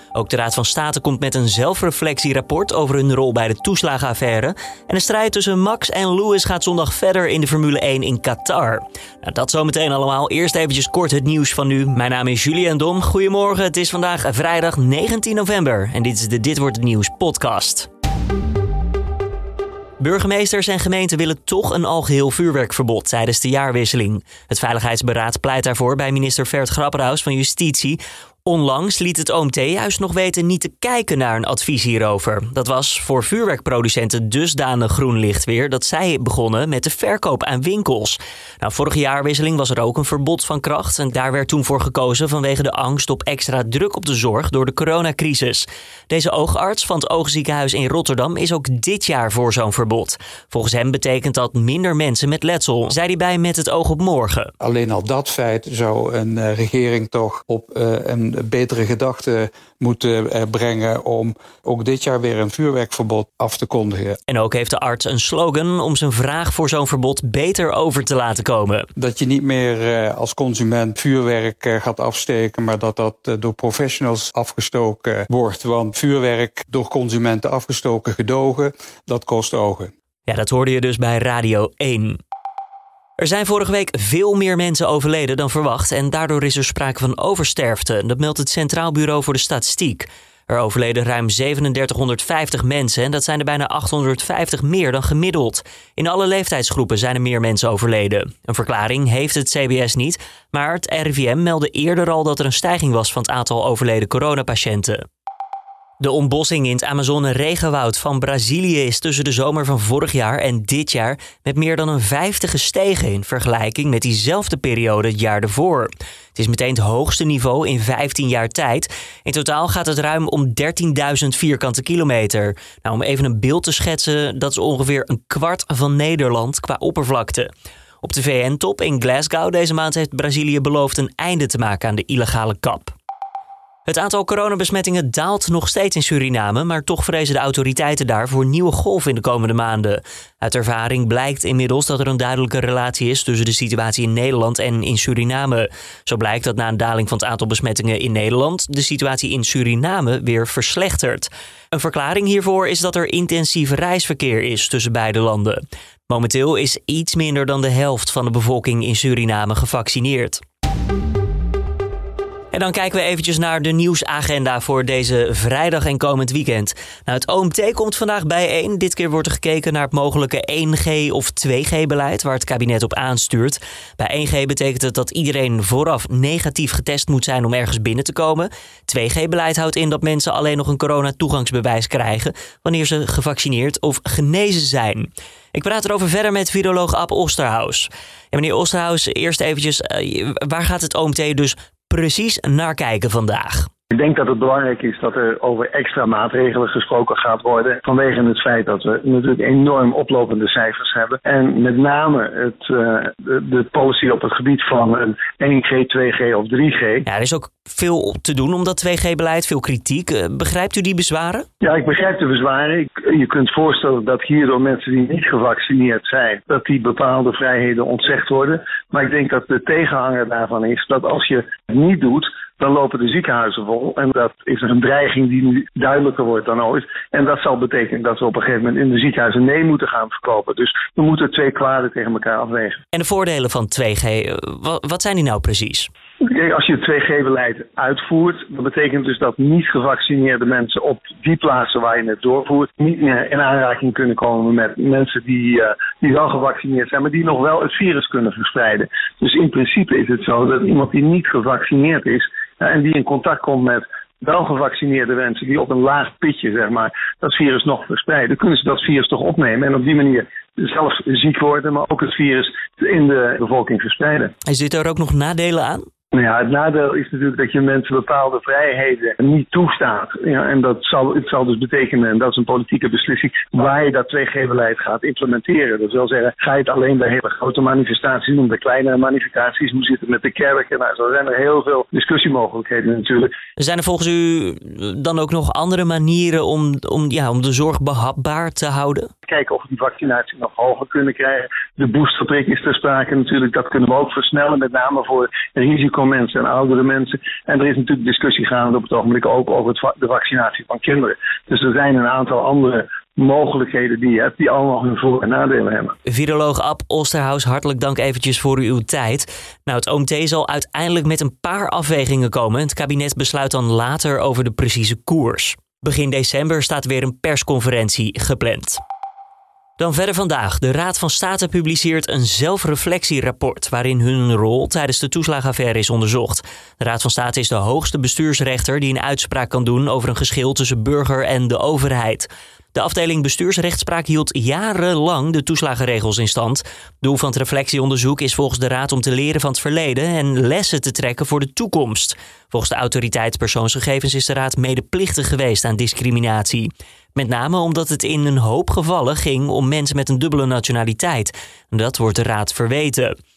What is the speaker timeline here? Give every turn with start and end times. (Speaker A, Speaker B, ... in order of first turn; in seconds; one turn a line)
Speaker A: 0.1-17.9
Speaker A: 20.0-54.5
Speaker B: 54.6-64.2
Speaker A: 64.3-68.9
Speaker B: 69.0-79.9
Speaker A: 80.3-82.2
Speaker A: 83.2-105.0
Speaker A: 106.0-127.5
Speaker A: 128.0-132.9
Speaker A: 133.9-160.4
Speaker A: 162.5-193.7
Speaker C: 193.9-207.1
Speaker A: 207.1-211.4
Speaker C: 211.6-232.8
Speaker A: 232.9-235.9
Speaker C: 236.2-264.3
Speaker A: 264.4-265.9
Speaker C: 266.1-283.3
Speaker A: 283.6-289.1
Speaker C: 289.2-305.9
Speaker A: 306.1-318.8
Speaker A: 319.8-353.1